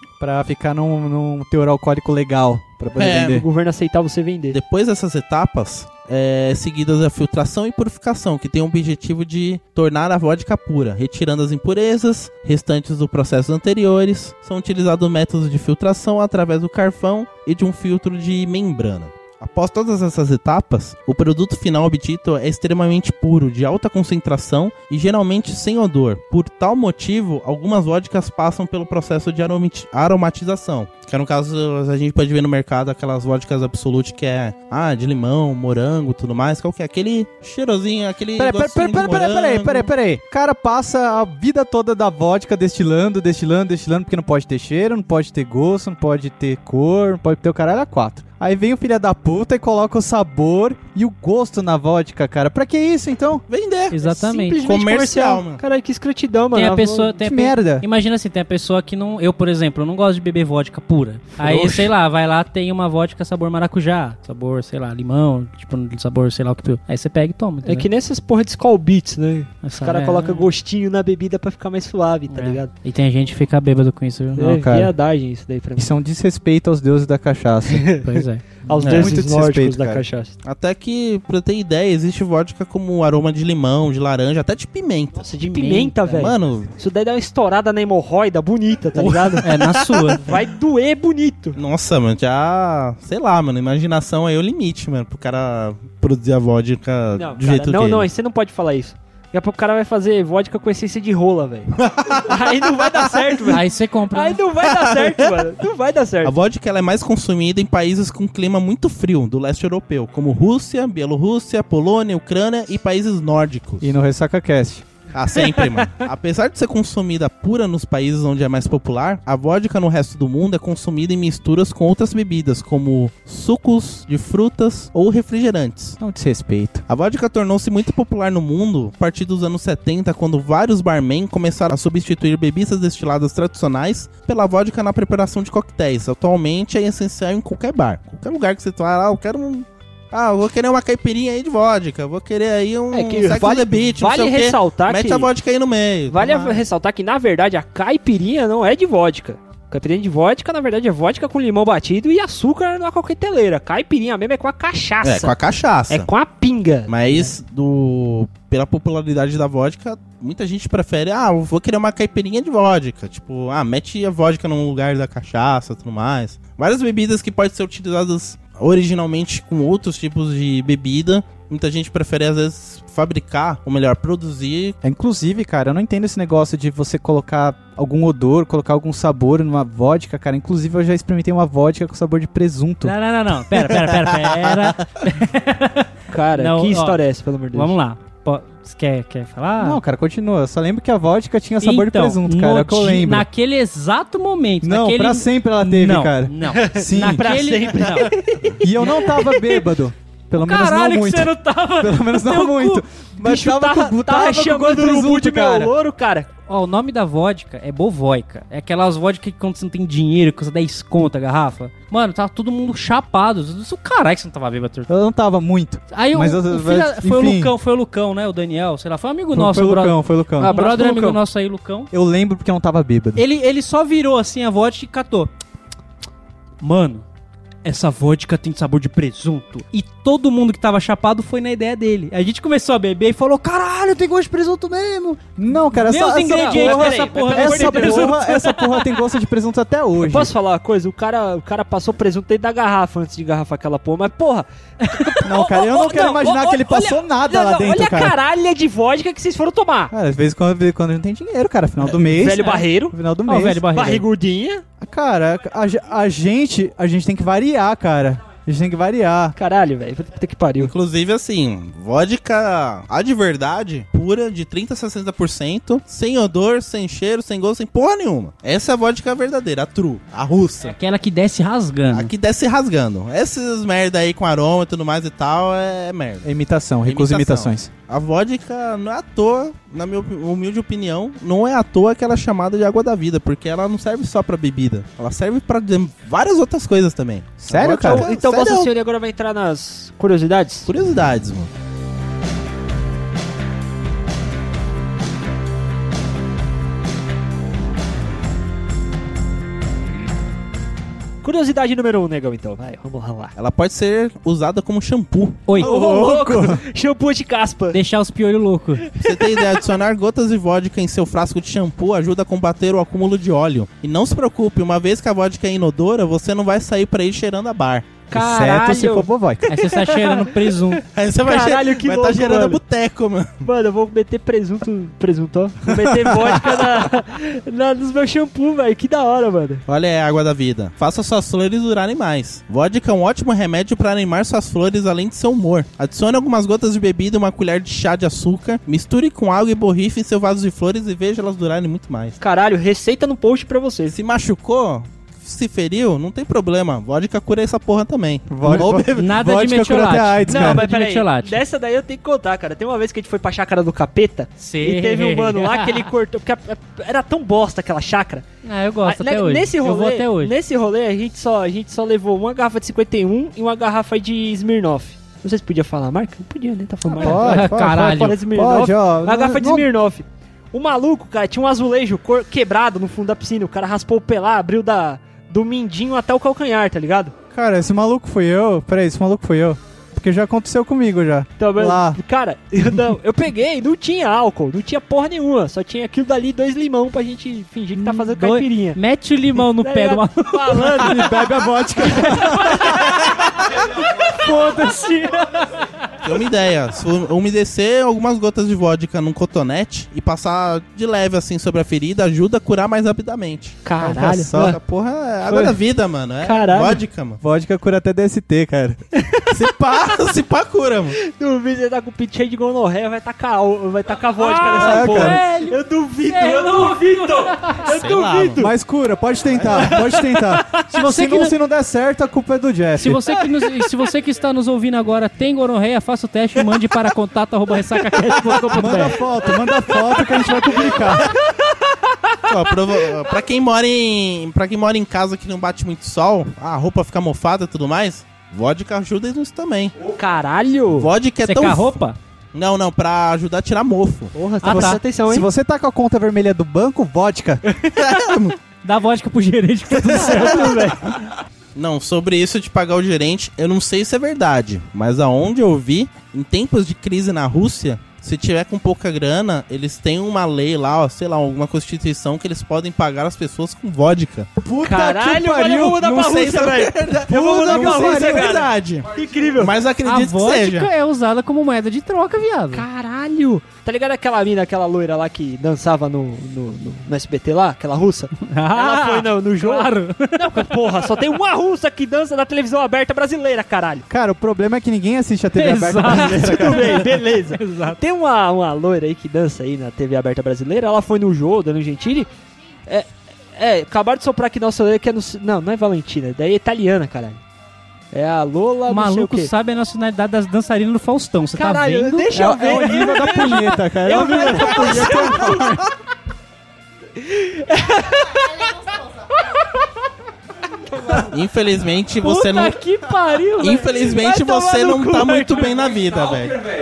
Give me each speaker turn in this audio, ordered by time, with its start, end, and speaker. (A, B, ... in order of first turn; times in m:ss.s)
0:00.2-0:03.5 A
0:03.0-0:03.4 B
0:03.1-0:04.6 C
0:04.5-0:39.9 B
0:38.4-0:53.4 A
0:53.5-0:54.0 B
0:53.9-0:54.6 D
0:54.0-0:57.2 C
0:54.6-0:55.6 B
0:56.5-1:07.9 D
0:57.2-0:57.8 A
1:01.5-1:01.8 C
1:07.6-1:12.7 C
1:09.6-1:10.5 D
1:12.3-1:14.5 D
1:14.4-1:14.9 A
1:14.4-1:15.9 C
1:15.8-1:17.9 A
1:17.7-1:20.4 C
1:18.0-1:18.6 D
1:18.7-1:20.0 A
1:18.8-1:19.1 B
1:20.4-1:25.3 B
1:25.2-1:29.5 C
1:25.5-1:26.0 D
1:26.0-1:26.7 B
1:29.0-1:30.3 B
1:29.4-1:30.3 D
1:30.2-1:31.6 C
1:31.6-1:38.1 B
1:37.2-1:46.4 C
1:41.8-1:43.5 B
1:43.5-1:44.4 D
1:44.6-1:45.4 B
1:46.2-1:53.9 B
1:53.8-1:54.8 A
1:55.1-2:06.0 B
1:55.4-1:55.9 C
2:06.0-2:06.8 A
2:06.9-2:26.6 B
2:22.9-2:25.3 C
2:26.1-2:35.4 C
2:35.0-2:36.1 B
2:35.9-2:37.4 C
2:36.9-2:54.8 B
2:54.8-3:02.9 A
3:02.8-3:07.0 D
3:03.5-3:04.8 B
3:06.1-3:07.7 C
3:07.5-3:09.8 D
3:09.6-3:13.3 A
3:11.6-3:18.2 D
3:14.6-3:17.3 A
3:16.5-3:19.5 C
3:18.6-3:25.7 A
3:20.4-3:22.8 D
3:23.2-3:26.3 C
3:26.5-3:34.9 D
3:34.9-3:37.5 A
3:35.9-3:41.9 D
3:39.3-3:41.2 A
3:41.9-3:43.2 A
3:43.2-3:45.3 D
3:46.6-3:47.0 D
3:47.6-3:54.2 D
3:54.0-4:00.3 A
3:55.7-3:58.8 D
3:56.3-3:58.3 C
4:00.0-4:09.9 C
4:04.8-4:05.2 D
4:05.2-4:08.2 A
4:09.9-4:13.7 A
4:12.0-4:13.0 C
4:12.4-4:12.7 D
4:13.3-4:14.0 D
4:13.7-4:14.6 C
4:14.8-4:19.4 A
4:19.4-4:20.7 C
4:20.6-4:30.8 B
4:30.6-4:32.1 D
4:31.9-4:36.3 B
4:36.2-4:37.7 A
4:36.8-4:48.7 B
4:47.4-4:48.1 A
4:47.7-4:50.7 C
4:50.7-4:51.5 B
5:01.2-5:03.4 C
5:03.4-5:05.5 B
5:05.6-5:06.6 A
5:05.6-5:07.8 C
5:07.7-5:08.9 D
5:08.9-5:09.6 C
5:09.0-5:18.0 B
5:18.1-5:22.6 C
5:18.1-5:19.4 A
5:19.5-5:20.8 D
5:20.9-5:23.4 B
5:23.4-5:29.6 C
5:25.7-5:26.4 A
5:29.7-5:42.2 B
5:42.2-5:44.0 C
5:43.9-5:49.0 B
5:48.3-5:50.7 A
5:48.6-5:51.4 D
5:50.3-5:58.3 C
5:54.4-5:55.9 D
5:58.4-6:00.3 D
5:58.8-6:17.2 C
6:06.9-6:09.7 A
6:07.0-6:08.2 D
6:17.3-6:22.0 A
6:21.4-6:28.8 C
6:27.8-6:30.9 D
6:29.4-6:33.0 C
6:30.8-6:33.0 A
6:32.2-6:32.8 D
6:34.0-6:35.6 D
6:36.0-6:43.6 B
6:43.6-6:44.6 C
6:43.8-6:44.6 A
6:44.3-6:47.2 B
6:46.2-6:46.8 C
6:47.2-6:48.8 A
6:49.0-6:49.4 C
6:49.3-6:51.0 B
6:51.0-6:58.5 C
6:54.2-6:55.6 D
6:54.6-6:55.2 A
6:56.1-6:57.7 D
6:57.7-6:58.5 B
6:58.4-7:03.1 A
6:59.4-6:59.7 B
6:59.4-7:00.4 C
7:00.6-7:01.3 D
7:02.8-7:09.0 D
7:08.0-7:08.9 C
7:08.5-7:11.1 A
7:09.8-7:11.0 C
7:12.3-7:19.8 B
7:19.8-7:20.9 C
7:20.8-7:21.8 B
7:21.2-7:22.0 D
7:22.3-7:24.2 B
7:24.2-7:25.3 C
7:24.2-7:27.4 A
7:24.4-7:24.8 D
7:27.7-7:28.4 B
7:28.6-7:30.9 D
7:30.0-7:30.9 C
7:31.6-7:44.3 B
7:44.4-7:45.8 A
7:44.6-7:49.6 C
7:45.8-7:50.7 B
7:47.1-7:48.5 A
7:49.8-7:52.6 D
7:52.5-8:03.9 C
7:58.2-8:00.6 D
8:03.9-8:06.9 A
8:05.4-8:07.8 D
8:05.9-8:12.1 C
8:12.7-8:17.2 C
8:17.9-8:19.3 C
8:18.7-8:22.1 D
8:21.4-8:25.6 C
8:22.1-8:25.7 A
8:27.0-8:29.5 C
8:30.6-8:31.1 C
8:31.0-8:32.6 B
8:32.0-8:33.7 D
8:33.4-8:36.4 B
8:33.8-8:36.2 C